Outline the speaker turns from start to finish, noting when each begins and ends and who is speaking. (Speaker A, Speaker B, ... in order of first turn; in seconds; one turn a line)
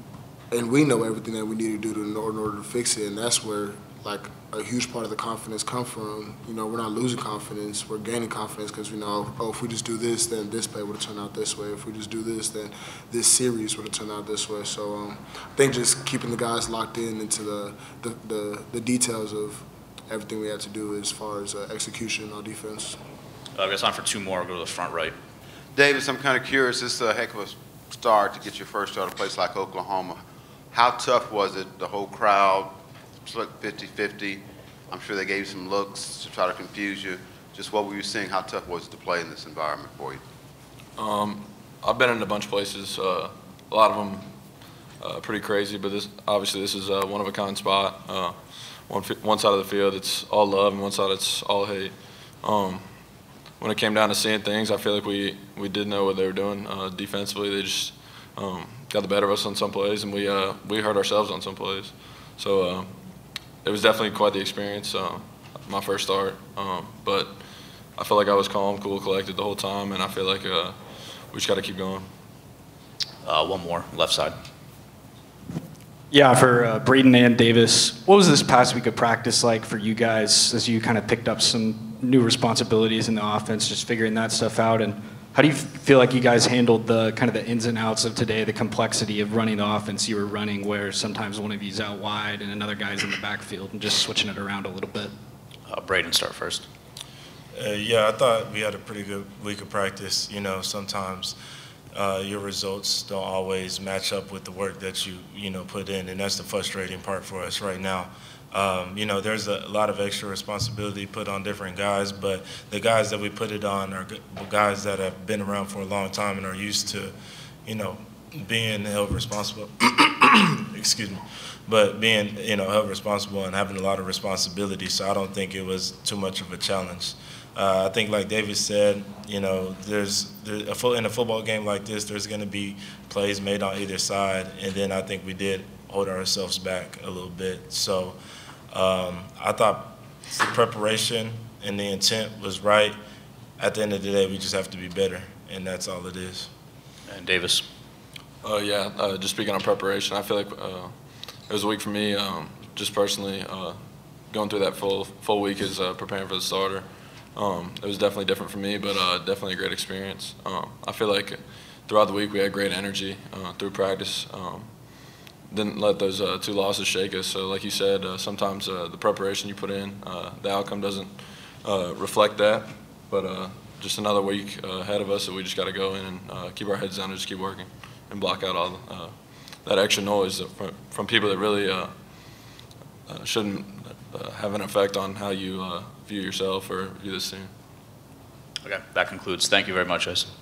Speaker A: 0.5-23.0
Speaker B: 23.6-25.1
Speaker C: 25.7-30.2
Speaker C: 30.7-40.2
Speaker D: 41.0-44.3
Speaker D: 45.0-53.0
Speaker D: 53.6-62.9
Speaker D: 63.6-67.4
Speaker D: 68.0-72.1
Speaker B: 73.2-74.3
Speaker E: 76.1-95.1
Speaker B: 95.7-96.7
Speaker F: 97.5-101.4
Speaker F: 101.9-117.1
Speaker F: 117.7-138.2
Speaker F: 138.7-143.0
Speaker F: 143.6-146.5
Speaker B: 147.1-147.6
Speaker D: 148.4-164.7
Speaker D: 165.5-182.5
Speaker D: 183.1-187.5
Speaker B: 188.6-190.3